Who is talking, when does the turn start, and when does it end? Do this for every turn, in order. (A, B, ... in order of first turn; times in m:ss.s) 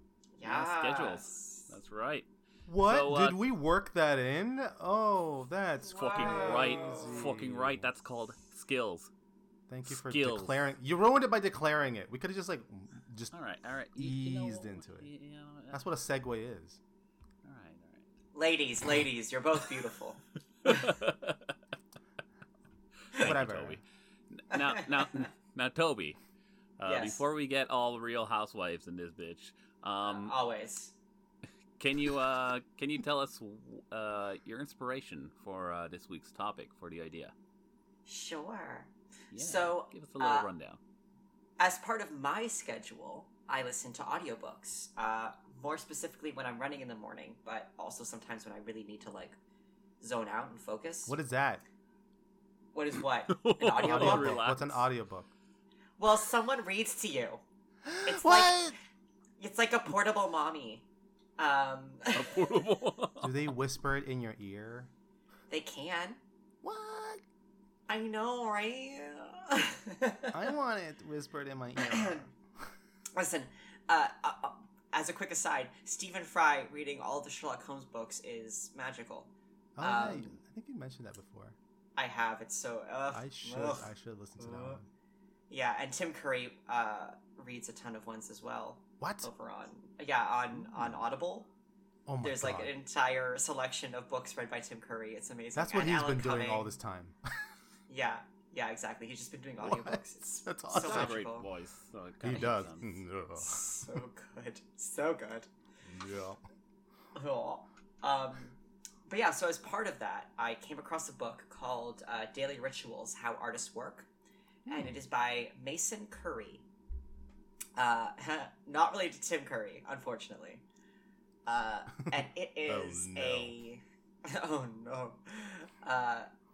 0:00.4-0:01.7 A
0:00.4-0:03.4 B
0:02.7-0:07.9 C
0:05.8-0:07.3 A
0:05.9-0:09.1 B
0:09.7-0:13.3 C
0:09.9-0:10.6 B
0:13.3-0:15.8 B
0:14.0-0:15.1 C
0:15.7-0:16.8 C
0:17.4-0:18.1 B
0:18.3-0:20.9 A
0:20.6-0:21.6 B
0:23.1-0:26.2 B
0:23.2-0:23.8 C
0:24.5-0:24.9 A
0:26.8-0:30.3 B
0:26.8-0:27.2 A
0:30.0-0:30.9 A
0:31.8-0:37.3 B
0:38.0-0:40.5 A
0:39.3-0:40.8 B
0:41.6-0:49.4 A
0:50.0-0:51.2 A
0:51.1-0:51.6 C
0:52.7-0:54.4 A
0:53.3-0:54.8 B
0:53.8-0:55.3 C
0:56.0-0:57.4 A
0:57.8-0:58.8 C
0:58.0-0:58.7 A
0:59.4-1:00.9 A
1:01.4-1:02.3 A
1:02.1-1:03.4 B
1:03.2-1:04.9 C
1:05.5-1:06.2 A
1:06.6-1:07.2 C
1:07.9-1:10.3 A
1:10.3-1:12.7 C
1:11.8-1:12.3 A
1:13.2-1:20.3 A
1:19.8-1:21.6 C
1:22.0-1:24.8 A
1:23.1-1:24.9 C
1:25.5-1:31.5 A
1:29.0-1:29.3 C
1:30.6-1:31.0 C
1:32.1-1:32.7 C
1:32.2-1:36.7 A
1:35.6-1:37.2 C
1:37.9-1:41.5 A
1:39.6-1:41.2 C
1:40.7-1:43.0 B
1:42.2-1:44.0 C
1:43.4-1:45.5 A
1:45.8-1:46.4 C
1:47.2-1:54.1 A
1:54.7-1:55.0 C
1:54.7-1:56.6 A
1:57.8-2:00.6 A
2:01.5-2:06.3 A
2:02.2-2:03.6 C